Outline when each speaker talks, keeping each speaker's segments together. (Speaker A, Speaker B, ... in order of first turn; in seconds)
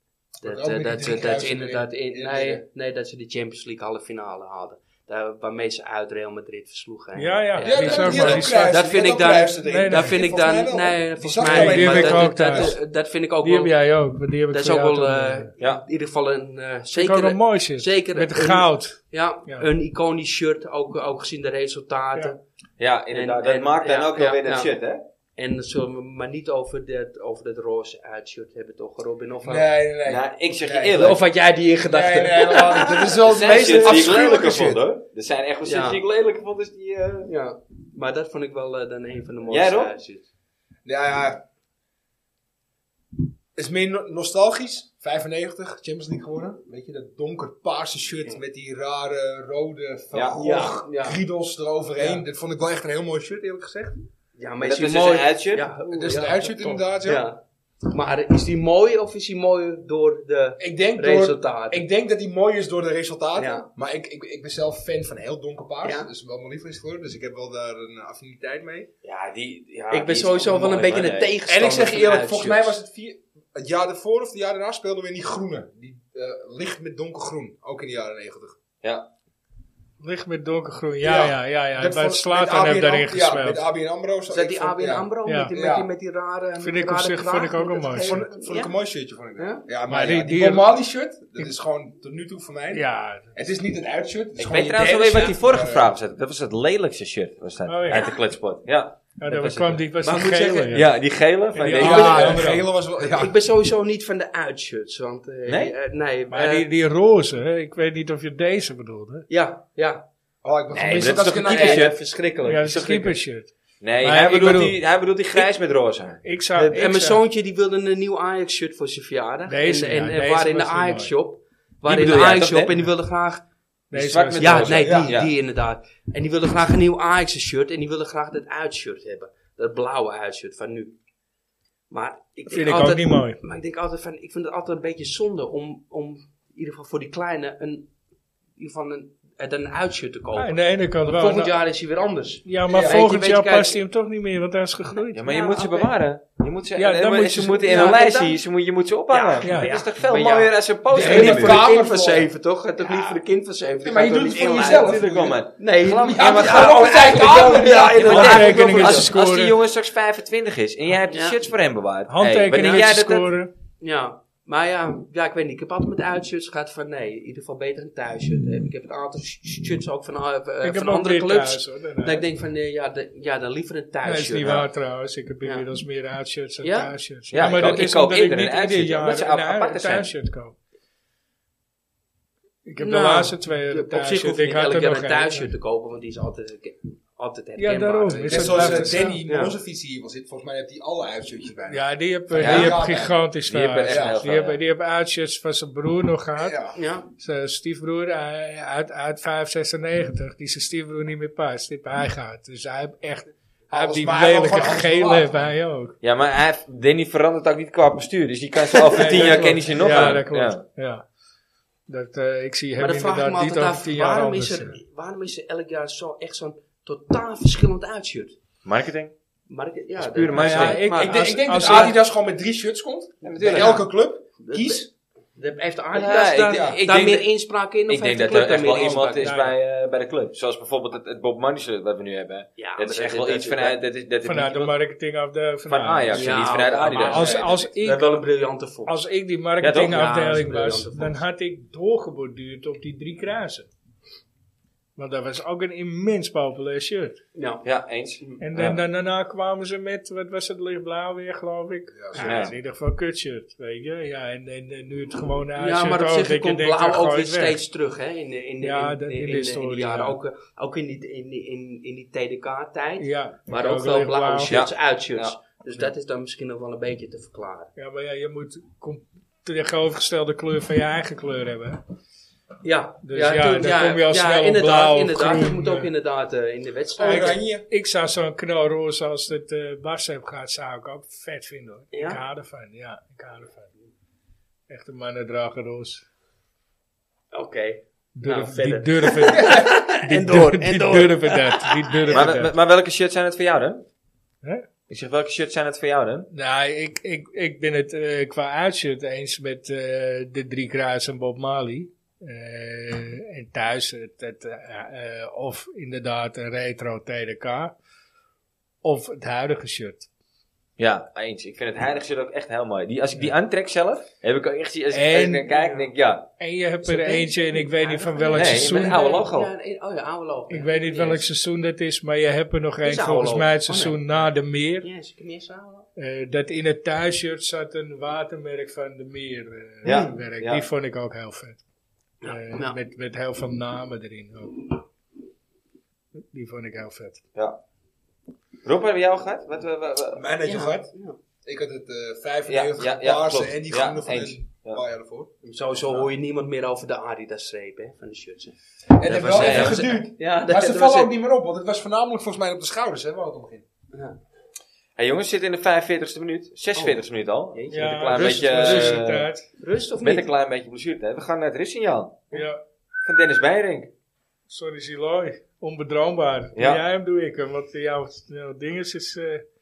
Speaker A: 0.4-2.6, 7.6-12.8, 29.4-31.2, 31.8-34.8, 40.8-41.4, 43.5-54.0, 55.9-57.2, 60.6-68.9, 71.5-78.5, 81.0-85.9, 88.0-95.9, 101.7-103.3, 110.4-111.9, 124.8-125.1, 142.7-143.0, 150.9-152.3, 152.8-153.2, 153.8-155.4, 156.0-158.5, 188.3-193.2, 193.8-194.2, 196.4-196.8, 203.7-205.3, 220.9-224.9, 226.5-226.8, 251.9-252.3, 277.0-277.6, 340.1-340.9, 341.4-345.3, 348.9-353.6
Speaker B: 0.4-13.7, 14.5-22.4, 23.1-24.7, 25.4-29.7, 30.9-34.1, 35.6-36.0, 37.2-40.3, 50.4-51.2, 52.0-52.2, 54.4-61.8, 63.4-63.7, 65.8-66.1, 69.9-72.8, 84.3-88.7, 89.4-89.7, 95.0-95.3, 100.0-100.8, 101.7-102.4, 103.1-106.7, 109.3-110.0, 110.7-113.0, 116.5-123.4, 124.4-130.9, 131.9-137.9, 138.6-143.8, 144.9-145.9, 147.6-148.4, 149.1-155.0, 155.6-159.1, 161.1-161.4, 162.5-162.8, 163.8-174.7, 176.6-177.7, 182.8-189.5, 196.7-197.1, 209.1-210.1, 212.8-218.3, 219.5-221.9, 223.3-223.8, 224.4-224.8, 225.4-229.3, 232.6-233.8, 236.1-238.9, 239.7-241.2, 247.3-247.6, 255.6-267.7, 272.6-277.4, 281.9-282.2, 287.3-292.3, 315.5-315.9, 316.8-321.3, 322.8-324.3, 324.8-325.9, 329.8-330.1, 332.2-332.8, 340.4-341.2, 345.4-351.1, 356.7-357.0, 357.5-359.1, 359.6-360.3
Speaker C: 7.2-8.7, 9.6-10.3, 11.4-12.8, 13.4-15.5, 16.9-19.7, 80.0-83.6, 85.2-85.5, 86.6-88.2, 89.9-90.7, 92.7-93.2, 97.7-98.0, 99.2-100.9, 101.5-102.6, 106.3-109.2, 112.4-114.8, 116.2-117.2, 119.5-121.1, 123.9-124.8, 132.5-133.4, 140.3-141.5, 142.4-145.2, 146.8-147.9, 149.4-149.7, 158.0-159.5, 162.1-163.5, 170.6-172.2, 174.0-180.5, 182.6-185.5, 187.6-189.2, 191.7-196.6, 197.2-205.9, 208.9-211.0, 211.9-214.8, 220.3-222.0, 229.2-229.5, 234.2-238.0, 238.8-243.7, 245.0-247.2, 248.4-257.6, 258.6-260.2, 263.0-264.5, 267.8-271.8, 273.0-275.9, 277.0-283.7, 284.7-286.0, 288.2-292.5, 296.3-307.7, 308.8-310.1, 314.9-315.5, 316.4-319.0, 320.5-324.9, 326.0-331.6, 332.2-334.8, 336.2-337.2, 357.7-359.4, 362.3-362.6, 364.5-369.4
Speaker D: 22.8-25.0, 30.1-31.2, 33.3-37.3, 39.5-39.9, 50.1-50.4, 54.6-55.7, 69.0-71.3, 78.8-79.1, 94.4-99.8, 100.7-102.4, 105.5-105.7, 110.9-112.0, 113.8-116.2, 121.8-122.7, 123.9-125.3, 145.1-151.6, 154.6-157.1, 157.9-163.3, 177.3-180.1, 192.4-192.8, 193.4-194.6, 206.0-210.6, 218.6-219.1, 220.0-220.8, 223.2-223.8, 225.9-227.3, 227.9-234.7, 235.7-237.5, 239.6-240.0, 247.6-248.8, 252.2-252.5, 264.5-265.4, 292.1-293.9, 294.9-296.3, 310.8-316.3, 318.3-319.5, 329.8-330.6, 338.6-340.2, 342.5-344.8, 349.3-349.9, 355.0-359.3, 360.0-362.2, 363.0-363.9, 366.5-366.8